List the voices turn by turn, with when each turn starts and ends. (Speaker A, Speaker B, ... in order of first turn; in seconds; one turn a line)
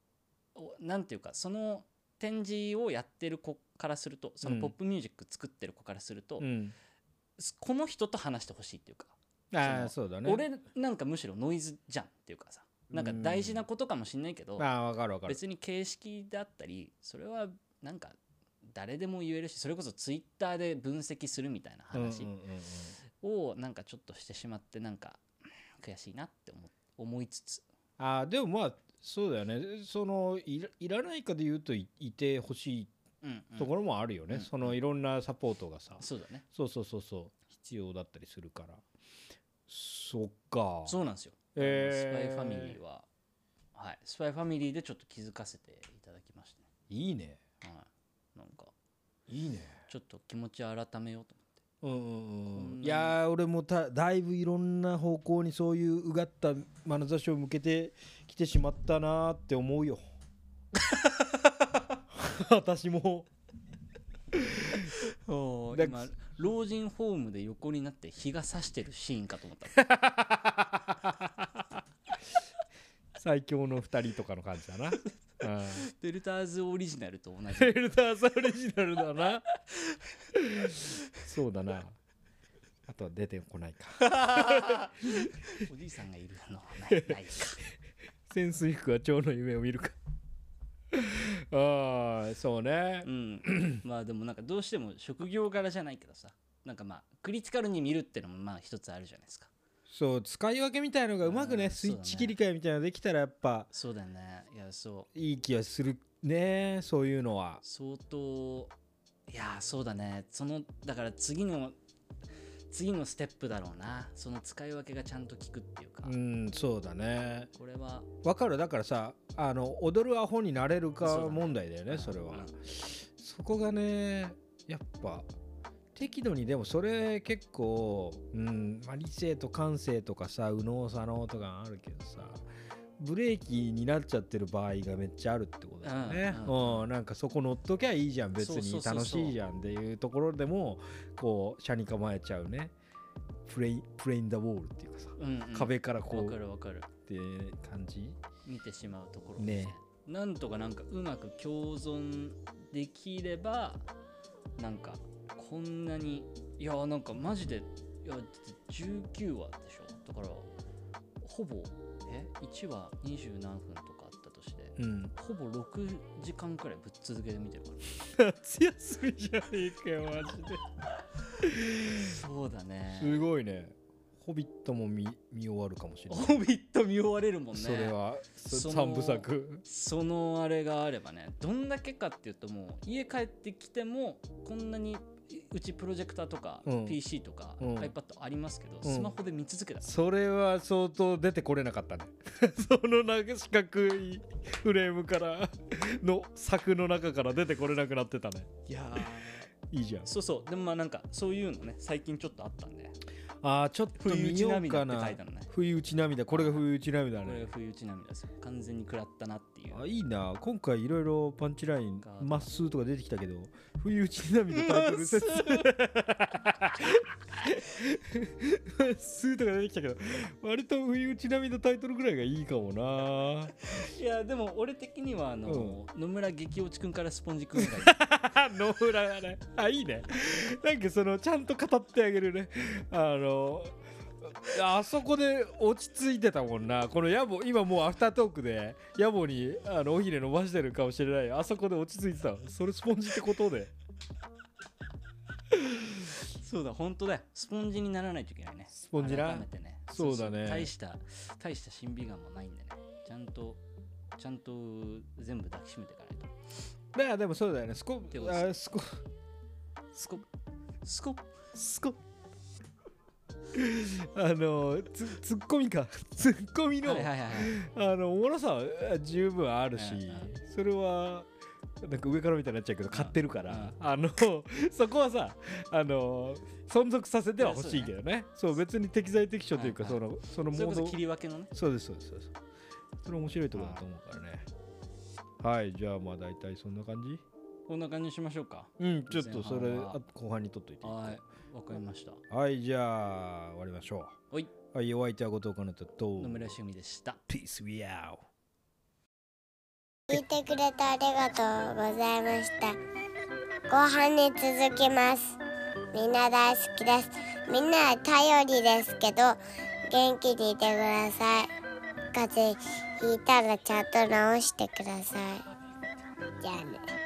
Speaker A: 0.5-6.5
Speaker B: 4.4-4.7
Speaker B: 6.4-6.7
Speaker A: 7.4-14.7
Speaker B: 9.5-10.4
Speaker B: 12.9-13.6
Speaker B: 14.6-15.4
Speaker A: 15.2-22.3
Speaker B: 21.9-22.9
Speaker A: 23.2-25.2
Speaker A: 25.8-27.6
Speaker B: 28.0-32.9
Speaker A: 33.2-33.7
Speaker B: 33.6-38.8
Speaker A: 34.3-34.8
Speaker A: 36.0-36.4
Speaker B: 39.7-41.0
Speaker A: 40.8-43.1
Speaker B: 41.5-42.8
Speaker A: 43.7-46.6
Speaker B: 46.9-47.4
Speaker A: 47.6-48.7
Speaker B: 49.3-49.8
Speaker A: 49.9-51.6
Speaker B: 51.8-60.1
Speaker A: 52.5-53.2
Speaker B: 62.1-63.3
Speaker B: 64.3-64.9
Speaker A: 64.8-69.8
Speaker B: 65.7-66.0
Speaker B: 69.7-71.6
Speaker B: 73.2-75.9
Speaker A: 75.8-77.8
Speaker B: 77.6-79.4
Speaker B: 80.3-82.0
Speaker B: 82.9-85.3
Speaker A: 84.0-87.6
Speaker B: 86.9-87.2
Speaker B: 88.3-90.0
Speaker B: 90.9-93.8
Speaker A: 93.0-99.5
Speaker B: 99.9-103.7
Speaker A: 101.2-102.3
Speaker A: 103.7-105.1
Speaker B: 105.1-107.6
Speaker A: 107.6-108.7
Speaker A: 109.3-111.8
Speaker A: 112.7-116.1
Speaker B: 116.0-117.5
Speaker A: 117.5-118.1
Speaker B: 118.2-125.3
Speaker A: 121.0-122.5
Speaker B: 125.9-132.4
Speaker B: 133.0-142.7
Speaker A: 135.8-136.9
Speaker A: 138.4-139.3
Speaker B: 143.4-146.4
Speaker A: 145.2-146.9
Speaker B: 147.1-148.2
Speaker A: 148.4-153.8
Speaker B: 149.4-149.7
Speaker A: 154.6-160.5
Speaker A: 161.2-167.8
Speaker B: 164.8-165.1
Speaker B: 168.1-170.6
Speaker B: 171.4-172.2
Speaker A: 172.0-173.2
Speaker B: 172.9-176.3
Speaker A: 176.1-178.0
Speaker B: 177.5-179.6
Speaker A: 178.5-189.9
Speaker B: 186.7-187.0
Speaker B: 187.6-187.9
Speaker B: 188.8-189.1
Speaker B: 189.8-198.6
Speaker A: 198.7-199.5
Speaker B: 199.6-200.1
Speaker A: 200.0-203.0
Speaker B: 203.4-207.4
Speaker A: 204.0-205.5
Speaker A: 206.3-206.6
Speaker A: 207.2-209.8
Speaker B: 209.7-223.5
Speaker A: 212.0-212.5
Speaker A: 214.5-215.7
Speaker A: 223.7-228.0
Speaker B: 225.4-225.8
Speaker B: 227.6-243.7
Speaker A: 246.3-253.6
Speaker B: 248.8-250.7
Speaker A: 254.2-256.3
Speaker B: 256.9-259.0
Speaker A: 258.1-258.5
Speaker A: 260.0-260.2
Speaker A: 260.8-261.3
Speaker B: 261.5-262.0
Speaker B: 263.5-271.3
Speaker A: 266.8-267.6
Speaker A: 269.8-270.3
Speaker B: 271.8-281.0
Speaker A: 272.9-273.7
Speaker A: 277.4-277.9
Speaker A: 279.5-281.5
Speaker B: 281.5-282.4
Speaker B: 283.0-284.5
Speaker A: 283.5-283.8
Speaker B: 285.4-287.2
Speaker A: 287.7-290.0
Speaker B: 288.8-291.2
Speaker A: 290.8-292.2
Speaker B: 292.3-294.2
Speaker B: 294.7-296.6
Speaker A: 296.2-297.2
Speaker B: 297.3-298.2
Speaker C: 300.1-302.8
Speaker C: 303.7-305.4
Speaker C: 305.9-311.5
Speaker C: 312.1-315.4
Speaker C: 316.4-316.8